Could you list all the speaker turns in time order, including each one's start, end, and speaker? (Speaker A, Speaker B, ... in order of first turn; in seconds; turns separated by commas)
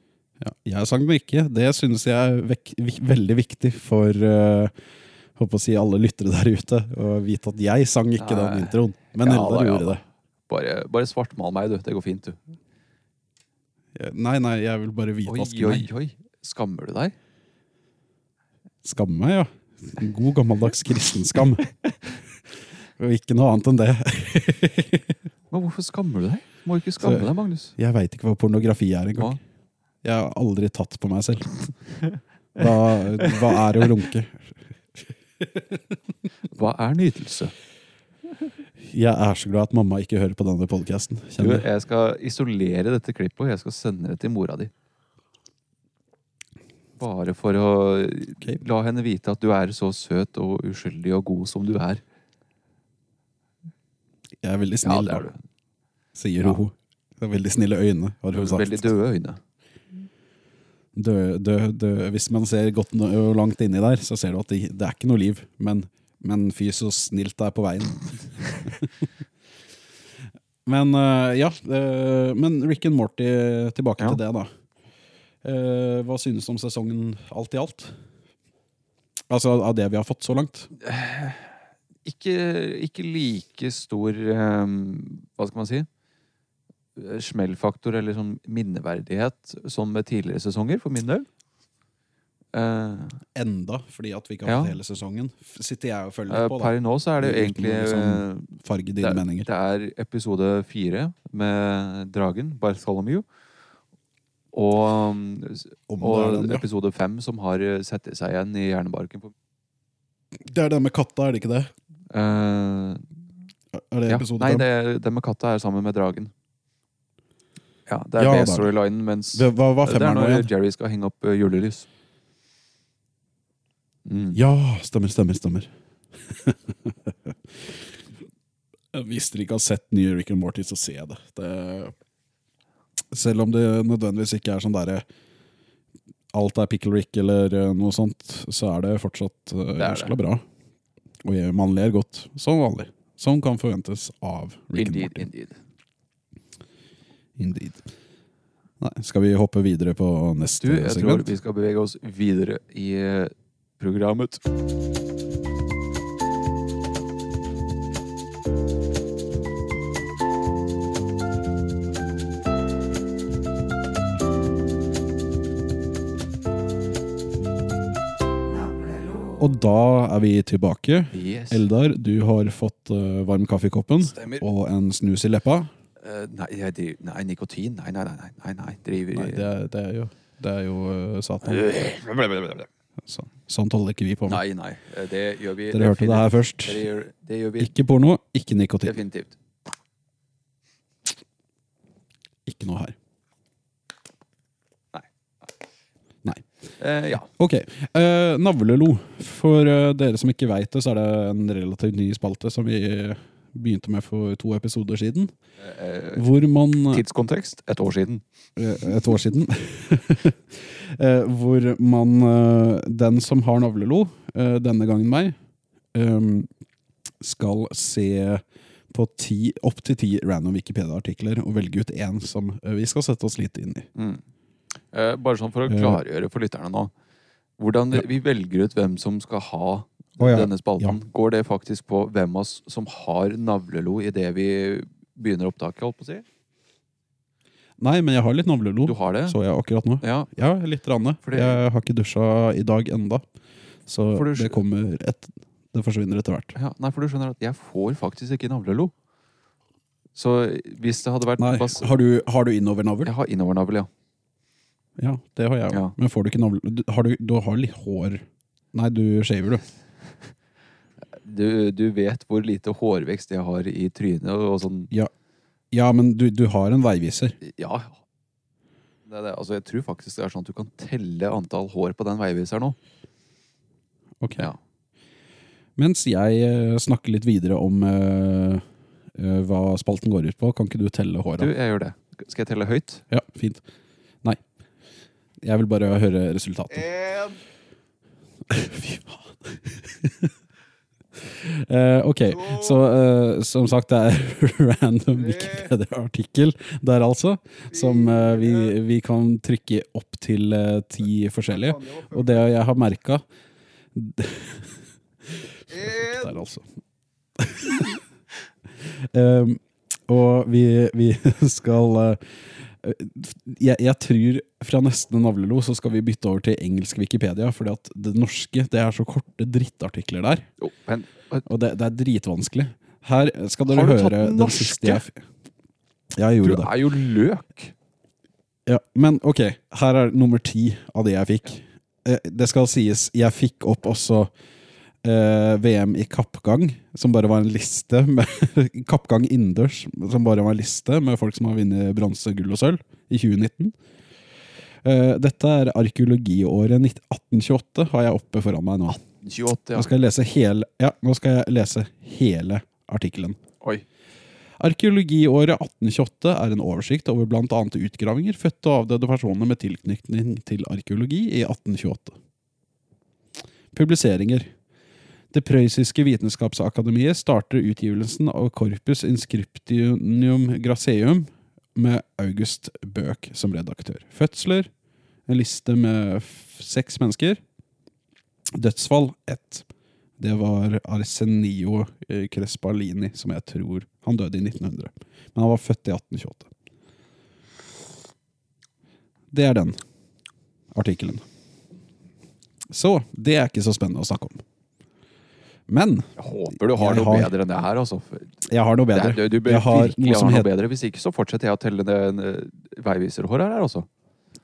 Speaker A: 0.4-4.7, Speaker A: 5.3-10.0, Speaker B: 8.2-12.4, Speaker A: 13.9-15.9, Speaker B: 15.3-17.1, Speaker A: 18.8-21.7, Speaker A: 23.0-25.1, Speaker B: 25.5-27.7, Speaker A: 27.0-29.4, Speaker A: 30.0-31.7, Speaker A: 32.5-34.5, Speaker B: 33.2-33.8, Speaker B: 36.5-37.5, Speaker A: 38.8-41.6, Speaker B: 41.4-44.7, Speaker B: 47.0-52.0, Speaker A: 54.4-55.2, Speaker B: 54.8-55.4, Speaker A: 56.1-58.9, Speaker B: 58.3-59.4, Speaker A: 60.9-69.0, Speaker A: 70.6-74.5, Speaker A: 75.4-77.9, Speaker A: 79.3-80.7, Speaker B: 80.8-81.5, Speaker B: 82.0-85.9, Speaker B: 87.0-91.2, Speaker B: 92.5-93.2, Speaker A: 93.3-99.5, Speaker B: 94.4-94.8, Speaker B: 96.3-103.2, Speaker B: 104.5-109.3, Speaker A: 105.9-106.6, Speaker A: 110.3-111.7, Speaker B: 112.1-113.0, Speaker A: 113.7-114.7, Speaker B: 114.1-116.3, Speaker B: 117.9-121.8, Speaker A: 118.2-118.7, Speaker A: 119.3-120.5, Speaker B: 124.0-124.4, Speaker A: 124.3-125.7, Speaker A: 126.3-127.8, Speaker A: 128.9-131.9, Speaker A: 133.1-135.0, Speaker A: 136.3-140.4, Speaker B: 139.8-140.2, Speaker A: 141.2-145.3, Speaker B: 144.7-145.6, Speaker A: 147.4-147.9, Speaker A: 148.8-151.3, Speaker B: 150.6-154.4, Speaker A: 169.4-175.7, Speaker B: 171.1-171.6, Speaker B: 174.0-174.4, Speaker B: 176.0-179.5, Speaker A: 179.1-181.7, Speaker B: 181.4-182.7, Speaker A: 183.0-184.4, Speaker B: 184.3-187.7, Speaker A: 185.7-186.8, Speaker A: 187.6-189.0, Speaker B: 188.8-189.3, Speaker A: 192.4-192.9, Speaker B: 196.8-197.3, Speaker A: 197.4-205.3, Speaker B: 205.6-206.2, Speaker A: 206.1-207.0, Speaker B: 206.9-208.2, Speaker A: 208.6-215.3, Speaker A: 215.9-216.5, Speaker A: 217.2-223.9, Speaker B: 223.9-224.2, Speaker B: 224.9-226.9, Speaker A: 225.7-226.0, Speaker B: 227.6-236.2, Speaker A: 230.2-231.0, Speaker A: 237.8-243.2, Speaker B: 238.8-239.4, Speaker B: 240.0-240.3, Speaker B: 241.2-241.6, Speaker A: 243.9-246.6, Speaker B: 244.1-244.6, Speaker B: 246.5-248.9, Speaker B: 250.1-251.9, Speaker A: 251.4-253.1, Speaker B: 253.0-253.9, Speaker A: 255.0-259.6, Speaker B: 261.2-264.9, Speaker A: 265.7-267.4, Speaker B: 267.4-268.0, Speaker B: 269.1-272.8, Speaker A: 274.2-274.5, Speaker A: 275.8-278.6, Speaker A: 279.1-281.5, Speaker B: 281.4-283.0, Speaker A: 283.1-283.6, Speaker A: 285.4-287.2, Speaker A: 288.5-290.3, Speaker A: 291.2-303.2, Speaker A: 303.9-306.6, Speaker A: 307.4-308.0, Speaker A: 308.8-320.5, Speaker B: 320.6-321.4, Speaker A: 321.4-325.2, Speaker B: 323.6-325.0, Speaker A: 326.1-326.7, Speaker B: 326.4-327.7, Speaker A: 328.6-334.3, Speaker A: 335.0-343.7, Speaker A: 344.8-349.0, Speaker B: 348.9-349.9, Speaker A: 349.7-353.4, Speaker A: 354.6-362.2, Speaker A: 363.7-364.5, Speaker A: 365.3-374.7, Speaker A: 375.3-377.4, Speaker A: 378.6-379.6, Speaker A: 380.2-386.5, Speaker A: 389.3-389.8, Speaker A: 390.7-391.2, Speaker A: 392.7-394.4, Speaker A: 395.7-397.3, Speaker B: 396.2-398.3, Speaker A: 398.4-400.5, Speaker B: 398.9-403.9